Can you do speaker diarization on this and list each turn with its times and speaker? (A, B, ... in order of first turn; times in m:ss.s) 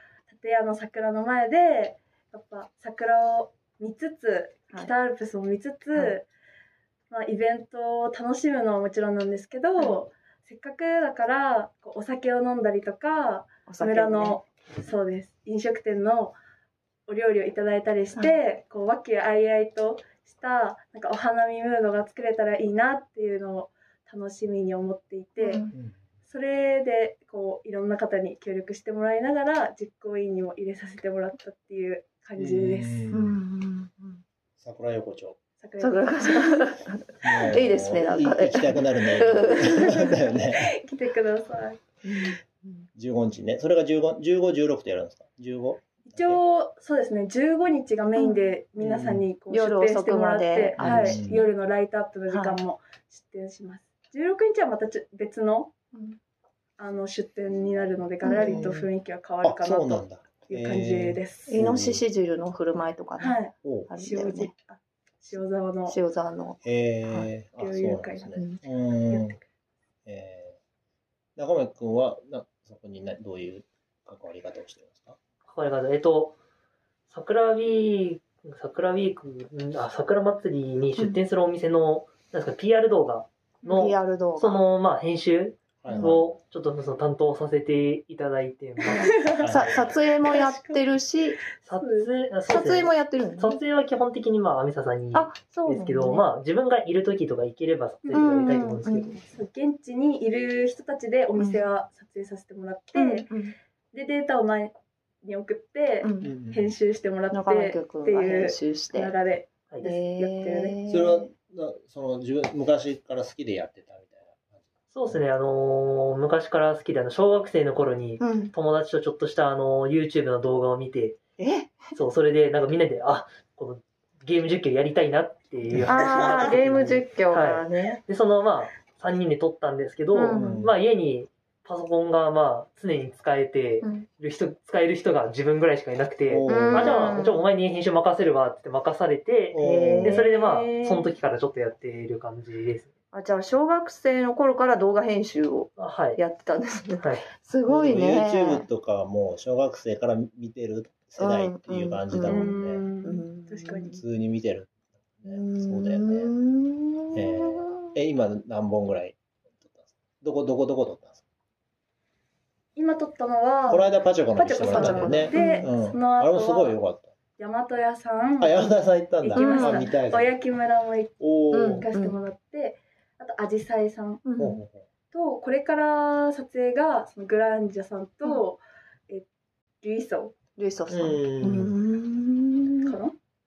0:00.3-0:06.3 A
0:07.1-0:16.4 A
0:13.7-0:14.4 B
0:17.1-0:25.6 A
0:25.4-0:25.7 B
0:26.3-0:33.1 A
0:32.4-0:33.4 C
0:33.1-0:34.2 B
0:34.6-0:35.4 C
0:35.6-0:36.7 A
0:35.8-0:40.1 B
0:37.2-0:40.8 C
0:39.7-0:41.8 A
0:42.0-0:42.9 B
0:43.0-0:46.4 C
0:46.1-0:55.7 A
0:48.2-0:48.5 B
0:48.8-0:49.3 C
0:49.5-0:51.5 B
0:50.8-0:51.4 C
0:52.3-0:52.6 B
0:55.9-0:56.2 B
0:56.8-1:01.6 A
0:58.2-0:58.9 B
0:58.3-0:58.8 C
0:59.4-1:02.0 C
1:01.5-1:04.5 B
1:03.2-1:06.0 A
1:03.6-1:03.9 C
1:05.9-1:07.3 B
1:06.6-1:09.4 C
1:07.6-1:08.6 A
1:09.1-1:09.4 A
1:10.1-1:10.6 C
1:11.4-1:15.2 C
1:15.5-1:16.4 D
1:17.1-1:29.2 D
1:23.7-1:24.6 B
1:25.8-1:26.3 C
1:28.8-1:29.7 A
1:28.9-1:31.4 B
1:29.4-1:29.9 C
1:30.2-1:30.8 A
1:31.7-1:39.2 D
1:31.7-1:32.1 A
1:32.5-1:33.6 B
1:35.1-1:36.2 B
1:38.0-1:38.3 A
1:38.1-1:39.2 B
1:39.2-1:43.3 A
1:41.4-1:41.6 B
1:43.0-1:43.6 B
1:43.9-1:50.8 A
1:46.0-1:46.3 B
1:46.2-1:46.7 C
1:47.3-1:49.1 B
1:49.8-1:51.3 B
1:50.9-1:55.2 C
1:54.9-2:01.2 D
1:58.2-1:58.5 B
2:01.4-2:01.9 B
2:01.9-2:22.9 D
2:05.7-2:06.9 C
2:05.9-2:08.0 B
2:10.1-2:10.6 B
2:10.3-2:10.7 C
2:13.8-2:14.1 B
2:16.3-2:17.2 C
2:16.4-2:17.4 B
2:19.5-2:20.3 C
2:19.6-2:21.1 B
2:23.1-2:28.7 B
2:25.8-2:26.2 D
2:27.0-2:27.3 D
2:27.7-2:32.8 C
2:31.2-2:32.5 B
2:32.2-2:34.0 A
2:33.0-2:34.0 B
2:34.0-2:36.3 C
2:35.3-2:37.9 B
2:37.1-2:41.2 C
2:42.8-2:46.8 A
2:43.7-2:47.1 C
2:44.7-2:45.7 B
2:47.4-2:51.2 A
2:48.4-2:50.3 C
2:49.4-2:49.9 B
2:51.2-2:51.8 C
2:51.5-2:52.2 B
2:51.8-2:54.2 A
2:54.2-2:54.6 B
2:54.4-2:54.9 C
2:55.1-2:59.2 A
2:59.8-3:00.3 A
3:00.6-3:03.0 B
3:00.9-3:01.8 C
3:02.8-3:03.2 A